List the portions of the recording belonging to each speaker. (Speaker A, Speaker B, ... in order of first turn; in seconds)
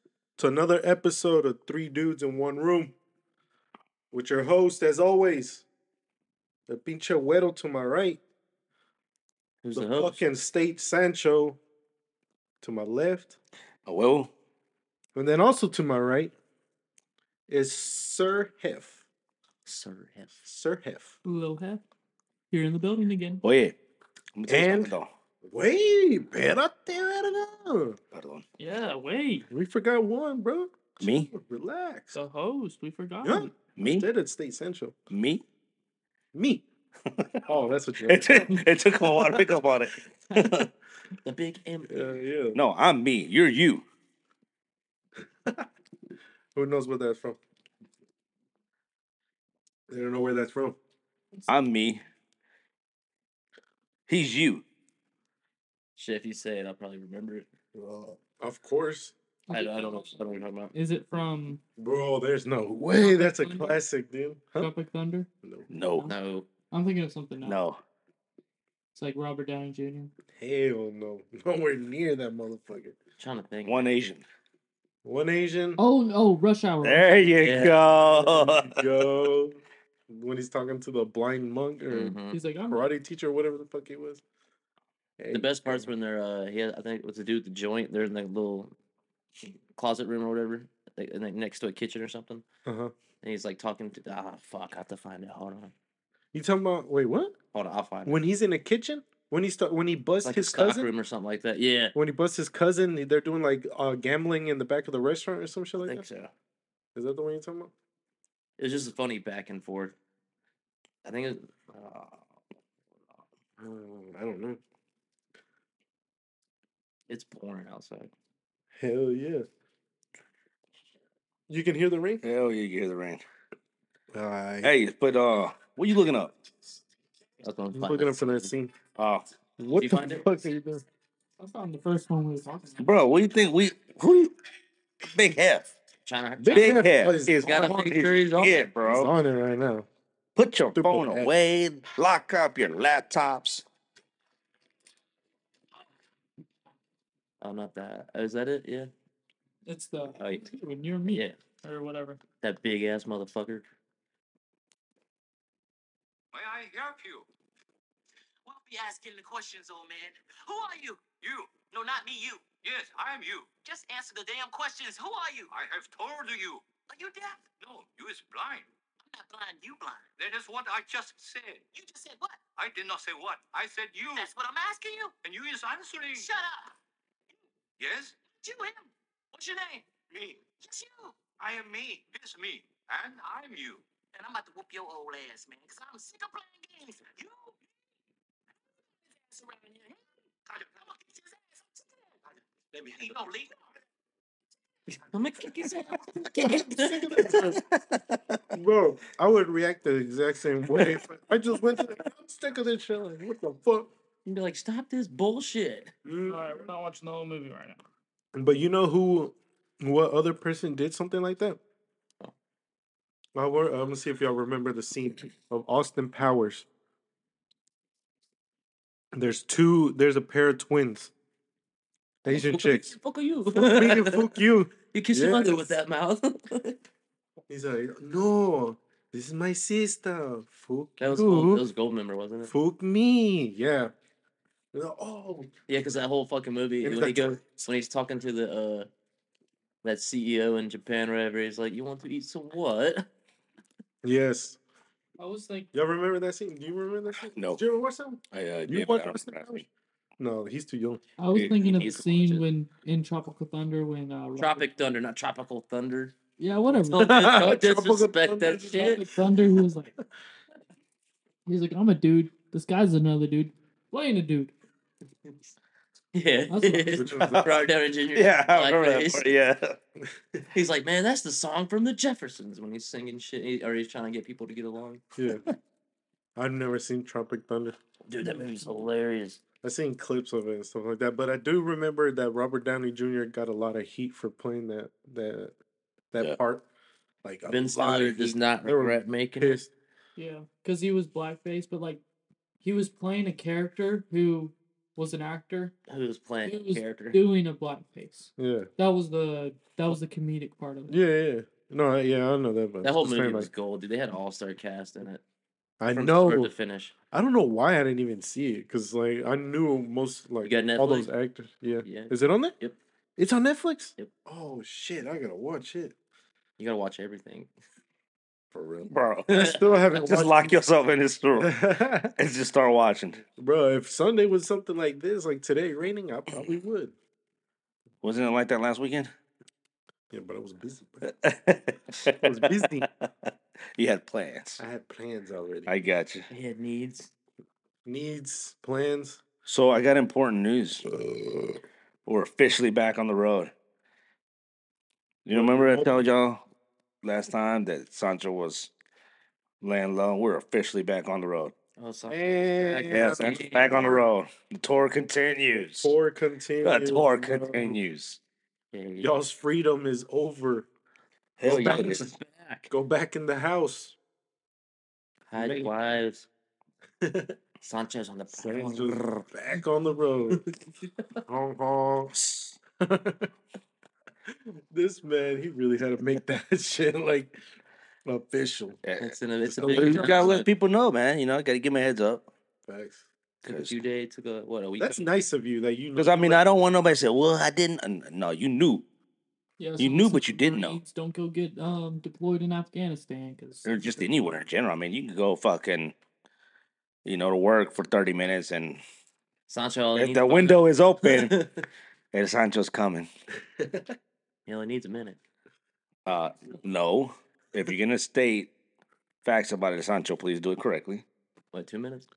Speaker A: 0.4-2.9, 4.1-5.6, 6.7-8.2, 9.7-11.6, 12.6-13.4, 15.1-16.3, 17.5-19.0, 20.4-21.1, 24.5-28.0, 29.5-32.2, 33.2-34.9, 36.3-36.6, 37.5-38.6, 41.9-42.6, 46.5-47.4, 49.9-50.8, 57.7-59.1, 61.8-64.7, 65.4-65.7, 70.4-73.0, 75.0-75.8, 77.8-84.2, 85.2-85.9, 92.6-92.9, 96.3-97.3, 98.0-100.9, 101.9-106.0, 106.9-107.7, 113.6-114.6, 118.7-119.5, 121.5-122.2, 124.1-124.7, 127.7-128.7, 129.6-130.8, 136.4-137.6, 138.8-139.9, 140.7-141.3, 196.3-197.6, 198.5-203.9, 206.0-206.7, 208.3-211.6, 213.3-216.7, 219.1-221.1, 222.2-222.9, 223.5-225.7, 227.5-231.7, 232.4-233.9, 234.7-235.5, 236.8-237.7, 244.0-244.6, 245.7-249.6, 250.2-251.0, 256.9-259.6, 266.9-267.6, 275.1-275.4, 276.4-277.8, 279.6-285.5, 286.1-286.6, 287.2-289.7, 298.4-298.7, 300.9-303.5, 305.8-306.5, 307.1-312.6, 313.2-315.9, 318.5-320.6, 321.3-322.1, 323.3-326.9, 330.1-331.1, 332.0-332.9, 334.6-335.7, 337.9-339.2, 340.8-341.6, 345.3-346.1, 352.1-354.0, 355.5-357.8, 359.0-360.7, 361.4-362.1, 362.7-363.9, 367.0-367.4, 368.3-370.4, 371.3-372.1, 372.8-373.3, 374.3-377.4, 378.0-378.8, 379.4-380.2, 382.7-383.1, 384.8-386.5, 403.6-403.8
Speaker B: 9.6-10.2, 19.6-20.3, 41.2-42.1, 56.0-57.5, 59.5-60.7, 66.0-66.5, 73.2-74.1, 77.4-77.8, 81.9-82.4, 85.3-88.7, 89.4-92.4, 93.2-95.7, 97.5-98.2, 100.2-101.9, 105.8-106.3, 108.6-109.9, 111.0-112.2, 117.1-118.1, 127.4-128.5, 129.7-130.2, 136.1-136.9, 137.4-138.7, 147.4-148.9, 150.2-150.4, 151.1-151.4, 152.4-153.6, 195.1-197.5, 204.2-205.9, 222.2-224.3, 224.9-226.8, 231.0-232.5, 235.7-238.9, 239.8-243.1, 251.4-252.5, 254.4-256.1, 256.9-259.0, 266.1-269.3, 270.5-275.0, 278.1-279.4, 287.5-289.6, 295.9-297.2, 302.8-305.2, 305.9-306.9, 310.4-311.1, 311.8-312.8, 316.6-317.5, 319.3-319.6, 336.3-337.1, 351.8-354.0, 358.7-359.1, 361.5-362.7, 365.3-366.3, 367.6-369.2, 379.0-380.4, 383.4-385.1, 399.5-401.6, 404.4-405.2, 411.5-412.1
Speaker C: 13.8-14.3, 23.4-23.8, 24.4-25.1, 28.1-28.4, 31.0-31.3, 33.8-34.1, 35.1-35.4, 38.1-40.7, 42.5-43.9, 51.5-52.0, 54.1-54.6, 65.7-66.1, 67.4-67.8, 73.6-74.2, 76.8-79.3, 122.2-123.2, 124.6-126.3, 128.9-129.3, 132.8-134.3, 135.1-135.7, 136.5-139.1, 140.3-143.6, 197.3-198.4, 247.3-247.6, 248.3-249.6, 251.3-251.8, 267.2-269.8, 318.9-321.5, 322.1-323.2, 328.0-329.1, 331.0-334.6, 335.7-336.3, 339.4-340.8, 342.1-343.5, 345.2-346.4, 347.0-348.7, 349.6-351.5, 352.9-355.9, 356.6-358.2, 361.4-362.1, 365.4-365.7, 372.1-372.6, 378.8-379.1, 379.7-382.3, 383.4-383.8, 385.9-388.9, 389.8-390.8, 393.6-395.9, 397.0-398.8, 399.9-401.4, 402.1-403.1, 406.1-408.5, 409.2-411.0
Speaker D: 21.2-21.8, 22.5-23.4, 28.6-29.5, 32.1-33.5, 59.5-60.1, 60.7-61.6, 63.0-63.8, 64.6-65.3, 66.7-67.6, 68.9-70.1, 75.8-77.7, 82.3-82.8, 131.4-132.9, 149.7-152.2, 206.2-207.8, 245.2-245.7, 251.2-254.7, 256.4-257.3, 258.5-259.9, 261.4-264.5, 266.5-267.1, 290.1-292.0, 292.6-295.7, 296.4-301.0, 389.6-394.1
Speaker E: 156.3-157.3, 161.1-161.7, 162.6-163.5, 165.5-166.7, 167.6-168.7, 170.2-171.6, 172.5-174.3, 175.2-176.3, 177.8-178.2, 180.1-180.5, 181.3-183.8
Speaker F: 158.4-162.6, 163.6-165.5, 166.9-167.4, 169.1-170.1, 171.7-172.4, 174.1-175.1, 176.1-176.7, 178.3-179.9, 180.5-181.2, 184.1-187.5, 189.2-192.1, 192.7-193.5